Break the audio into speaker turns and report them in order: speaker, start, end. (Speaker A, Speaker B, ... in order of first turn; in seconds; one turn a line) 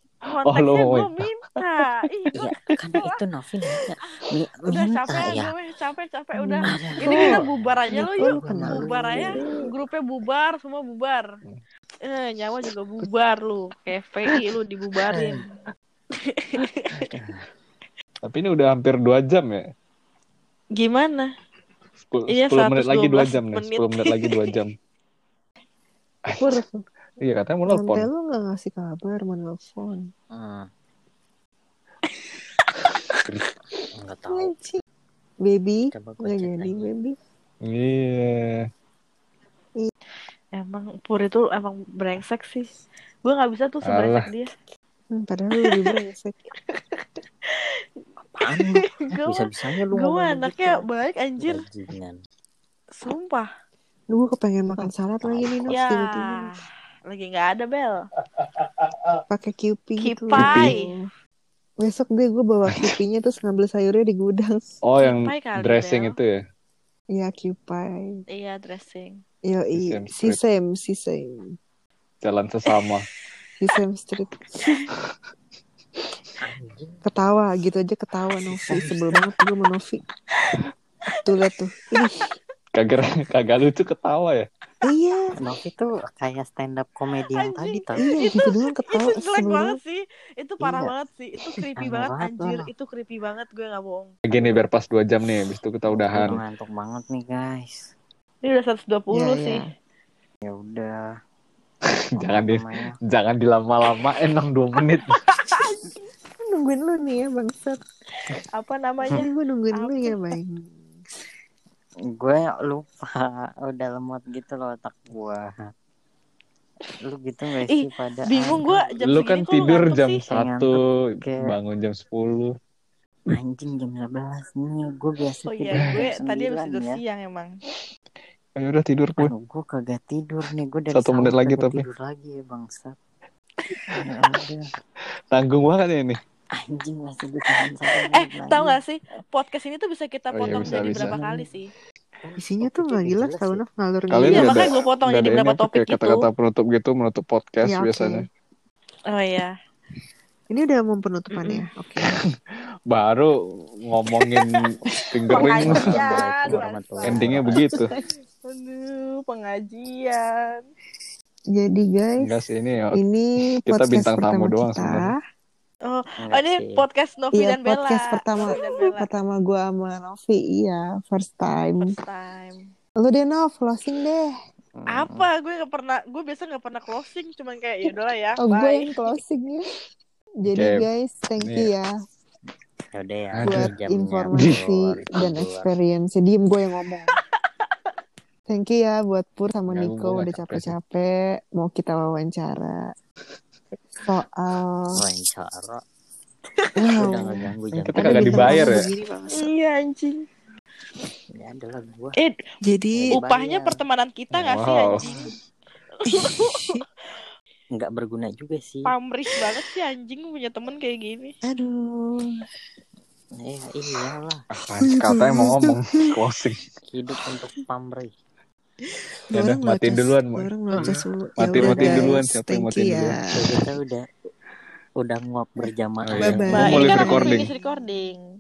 Speaker A: 0.3-3.1
Speaker B: 0.4-1.1
Speaker C: 2.3-5.5
Speaker A: 4.7-11.3
Speaker D: 6.3-9.6
Speaker C: 6.6-9.4
Speaker A: 12.1-15.4
Speaker A: 16.3-17.0
Speaker C: 16.9-17.5
Speaker B: 18.2-19.6
Speaker A: 20.8-21.3
Speaker B: 22.0-24.8
Speaker A: 22.3-24.4
Speaker B: 26.3-26.6
Speaker D: 26.4-26.8
Speaker B: 27.2-28.1
Speaker D: 27.7-30.1
Speaker C: 30.3-30.7
Speaker A: 32.6-33.1
Speaker C: 34.0-34.5
Speaker D: 34.3-34.8
Speaker D: 35.4-37.2
Speaker C: 35.9-36.9
Speaker B: 37.6-38.7
Speaker A: 40.5-42.7
Speaker A: 43.2-44.5
Speaker B: 43.8-44.3
Speaker D: 45.1-46.3
Speaker A: 46.7-47.8
Speaker A: 48.4-51.6
Speaker C: 48.4-50.8
Speaker C: 51.4-52.2
Speaker A: 53.0-53.5
Speaker D: 54.1-56.5
Speaker C: 54.8-55.8
Speaker A: 55.7-56.5
Speaker A: 57.1-58.0
Speaker D: 59.3-61.0
Speaker A: 60.0-60.9
Speaker B: 60.4-60.8
Speaker D: 61.8-64.6
Speaker B: 62.7-63.0
Speaker B: 64.8-66.4
Speaker A: 65.0-66.2
Speaker D: 67.1-68.1
Speaker A: 68.3-69.2
Speaker D: 69.5-71.5
Speaker B: 69.8-70.4
Speaker B: 72.2-73.1
Speaker D: 73.6-74.8
Speaker C: 76.4-77.0
Speaker D: 77.0-80.0
Speaker C: 78.5-79.2
Speaker A: 80.4-80.6
Speaker D: 81.2-82.2
Speaker A: 81.9-82.3
Speaker B: 82.7-84.5
Speaker D: 84.8-85.3
Speaker C: 85.4-88.2
Speaker A: 87.3-94.1
Speaker D: 88.0-89.8
Speaker C: 90.6-90.9
Speaker C: 91.8-92.7
Speaker B: 94.3-96.4
Speaker C: 95.9-97.9
Speaker A: 98.5-99.6
Speaker D: 99.1-99.6
Speaker C: 100.4-101.0
Speaker B: 102.0-105.2
Speaker C: 102.2-103.0
Speaker A: 104.9-105.9
Speaker D: 106.4-107.8
Speaker A: 108.2-110.3
Speaker D: 109.1-110.9
Speaker C: 112.2-115.7
Speaker C: 117.0-118.9
Speaker A: 117.7-120.2
Speaker B: 119.0-122.6
Speaker C: 120.3-121.5
Speaker C: 123.3-127.0
Speaker A: 125.4-127.5
Speaker B: 125.7-126.1
Speaker B: 128.6-129.3
Speaker C: 129.2-133.0
Speaker B: 130.9-131.8
Speaker C: 133.9-134.7
Speaker B: 135.3-136.2
Speaker C: 136.6-138.8
Speaker A: 138.1-141.7
Speaker B: 140.3-141.2
Speaker C: 140.5-141.5
Speaker C: 142.2-143.6
Speaker D: 142.4-144.7
Speaker B: 144.1-148.3
Speaker A: 144.3-146.2
Speaker D: 147.6-148.3
Speaker A: 149.1-149.5
Speaker D: 150.5-152.2
Speaker A: 151.3-151.7
Speaker B: 152.1-152.4
Speaker B: 152.9-153.3
Speaker B: 153.8-156.2
Speaker A: 155.3-160.6
Speaker C: 155.5-157.7
Speaker B: 157.1-157.9
Speaker D: 161.5-162.3
Speaker B: 162.2-162.9
Speaker D: 162.9-165.2
Speaker B: 163.7-165.1
Speaker A: 165.9-169.1
Speaker C: 166.2-166.8
Speaker D: 167.3-171.9
Speaker A: 171.8-172.7
Speaker D: 173.0-174.3
Speaker C: 174.8-175.3
Speaker A: 174.9-179.1
Speaker D: 178.4-179.7
Speaker D: 180.4-181.9
Speaker B: 180.5-180.9
Speaker B: 181.4-181.7
Speaker C: 182.9-185.7
Speaker B: 183.3-183.7
Speaker D: 183.4-187.2
Speaker B: 184.3-184.7
Speaker D: 188.5-192.9
Speaker B: 189.7-190.8
Speaker D: 194.0-195.0
Speaker C: 195.0-195.8
Speaker A: 196.6-196.9
Speaker D: 196.8-199.5
Speaker C: 196.9-198.8
Speaker B: 197.7-198.9
Speaker A: 199.3-200.2
Speaker C: 201.3-202.2
Speaker D: 202.6-203.2
Speaker C: 202.9-203.8
Speaker A: 203.1-205.3
Speaker B: 204.3-205.1
Speaker A: 205.9-206.8
Speaker D: 206.3-206.8
Speaker C: 207.8-208.9
Speaker A: 208.8-211.3
Speaker D: 211.5-212.3
Speaker C: 213.4-214.4
Speaker B: 214.5-216.6
Speaker D: 214.8-216.0
Speaker C: 216.9-218.1
Speaker D: 219.3-223.6
Speaker B: 219.3-223.2
Speaker C: 221.6-222.2
Speaker C: 223.2-224.1
Speaker C: 225.0-226.6
Speaker B: 226.0-227.5
Speaker D: 226.2-227.5
Speaker A: 226.5-228.2